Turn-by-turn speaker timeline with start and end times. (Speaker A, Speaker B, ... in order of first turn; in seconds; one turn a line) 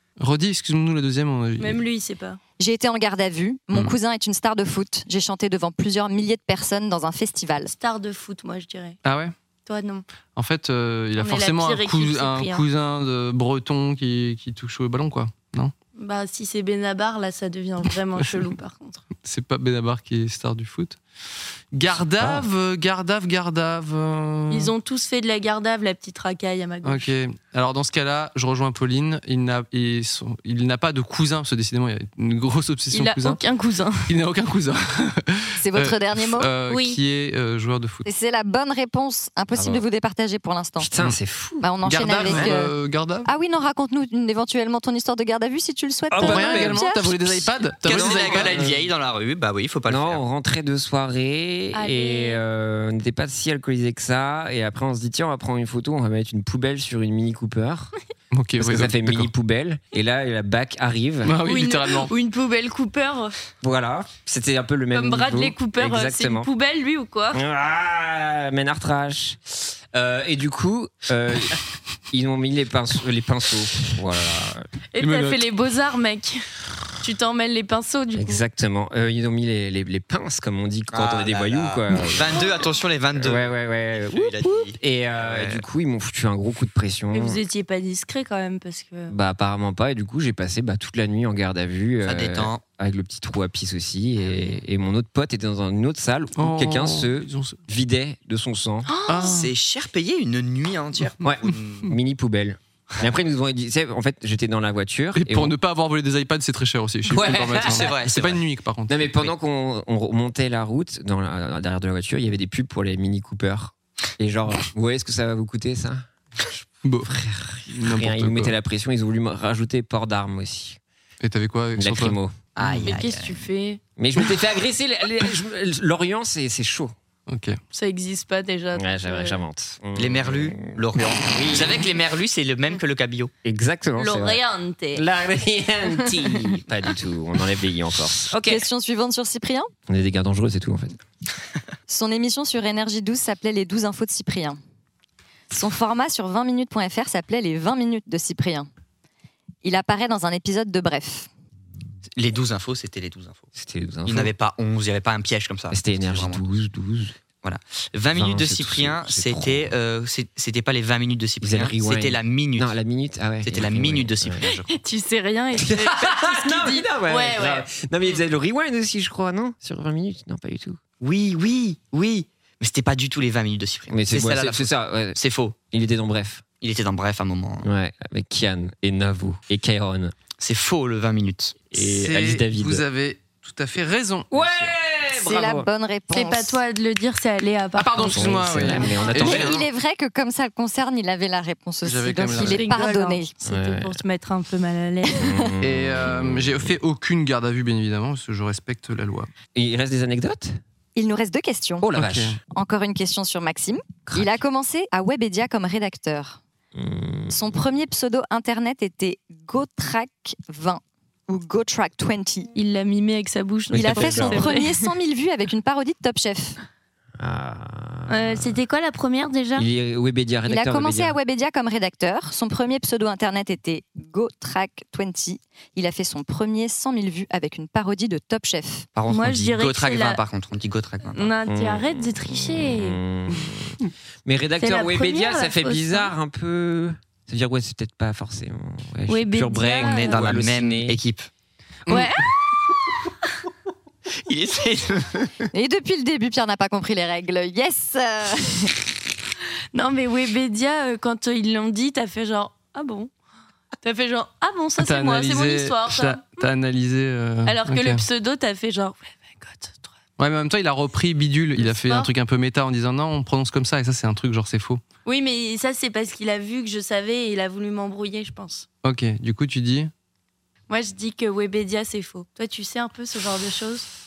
Speaker A: 0.2-1.8
Speaker B: 1.6-2.4
Speaker C: 2.6-7.7
Speaker B: 7.7-9.0
Speaker A: 9.0-9.3
Speaker B: 9.7-10.1
Speaker A: 10.3-15.7
Speaker B: 11.2-12.7
Speaker B: 16.0-19.0
Speaker A: 19.2-21.0
Speaker A: 21.7-24.7
Speaker D: 22.2-22.5
Speaker B: 24.5-27.1
Speaker A: 26.8-33.4
Speaker B: 32.9-34.1
Speaker A: 34.1-38.0
Speaker C: 35.6-36.5
Speaker B: 36.7-37.0
Speaker C: 38.0-40.9
Speaker D: 39.5-39.9
Speaker D: 40.8-41.7
Speaker C: 41.6-47.6
Speaker A: 41.8-43.3
Speaker D: 42.3-42.5
Speaker D: 46.1-46.8
Speaker A: 46.2-48.8
Speaker D: 47.8-48.7
Speaker E: 47.8-50.2
Speaker D: 49.9-57.9
Speaker B: 51.7-52.4
Speaker A: 58.3-59.3
Speaker D: 58.6-61.3
Speaker A: 61.2-62.1
Speaker B: 61.4-63.3
Speaker D: 63.6-66.5
Speaker B: 64.9-67.4
Speaker D: 67.3-74.7
Speaker B: 74.9-76.4
Speaker A: 75.0-75.4
Speaker B: 77.0-78.4
Speaker D: 78.2-82.5
Speaker E: 80.9-85.7
Speaker D: 83.2-87.4
Speaker B: 87.1-89.2
Speaker D: 89.1-98.9
Speaker E: 92.0-92.6
Speaker E: 94.2-94.5
Speaker A: 96.4-97.6
Speaker B: 98.9-99.5
Speaker A: 99.1-99.5
Speaker E: 99.2-101.9
Speaker D: 101.2-105.5
Speaker A: 105.2-109.1
Speaker D: 107.1-108.0
Speaker E: 107.6-108.4
Speaker D: 108.9-120.8
Speaker A: 116.8-117.1
Speaker A: 117.7-118.5
Speaker A: 121.2-122.2
Speaker D: 121.8-122.9
Speaker E: 122.6-123.4
Speaker B: 122.9-123.8
Speaker D: 124.0-127.0
Speaker A: 127.3-127.6
Speaker B: 127.7-129.4
Speaker D: 128.8-131.9
Speaker E: 130.0-133.3
Speaker D: 133.4-134.4
Speaker B: 134.0-135.1
Speaker D: 134.9-138.7
Speaker C: 138.5-139.7
Speaker D: 139.9-141.0
Speaker C: 141.9-144.6
Speaker C: 145.5-148.7
Speaker C: 149.6-151.3
Speaker E: 152.2-153.5
Speaker D: 153.6-154.3
Speaker E: 154.1-156.5
Speaker D: 155.7-157.2
Speaker E: 157.4-162.8
Speaker D: 158.1-159.7
Speaker D: 161.4-164.4
Speaker E: 163.4-164.7
Speaker B: 164.4-167.7
Speaker D: 165.6-170.8
Speaker E: 171.0-175.6
Speaker D: 173.9-176.4
Speaker E: 176.6-177.7
Speaker D: 177.6-180.1
Speaker E: 180.4-181.6
Speaker D: 181.7-182.8
Speaker A: 181.8-184.8
Speaker D: 184.3-185.7
Speaker C: 185.1-186.6
Speaker B: 186.1-189.3
Speaker A: 187.8-189.6
Speaker D: 188.1-189.6
Speaker C: 189.2-193.3
Speaker A: 191.8-192.6
Speaker B: 192.4-195.3
Speaker D: 193.4-194.0
Speaker D: 195.2-196.7
Speaker A: 195.6-199.3
Speaker D: 199.6-200.6
Speaker C: 201.0-201.9
Speaker D: 201.8-202.4
Speaker A: 201.9-202.4
Speaker C: 202.5-206.4
Speaker D: 204.1-204.4
Speaker D: 206.8-207.6
Speaker C: 207.3-212.5
Speaker B: 212.6-214.9
Speaker D: 213.7-214.6
Speaker C: 213.7-216.6
Speaker D: 217.2-218.6
Speaker B: 218.1-219.7
Speaker D: 219.6-221.2
Speaker C: 220.5-228.9
Speaker E: 228.9-231.3
Speaker B: 229.1-230.2
Speaker B: 231.1-233.0
Speaker D: 231.5-241.0
Speaker B: 234.6-236.1
Speaker B: 239.1-240.3
Speaker E: 239.8-241.3
Speaker B: 241.9-242.3
Speaker E: 244.2-245.4
Speaker C: 245.5-248.7
Speaker B: 249.7-253.1
Speaker B: 253.8-256.4
Speaker A: 254.8-258.0
Speaker B: 257.4-259.9
Speaker A: 260.2-264.8
Speaker B: 261.6-262.1
Speaker B: 265.1-268.7
Speaker A: 268.8-269.9
Speaker B: 270.7-273.9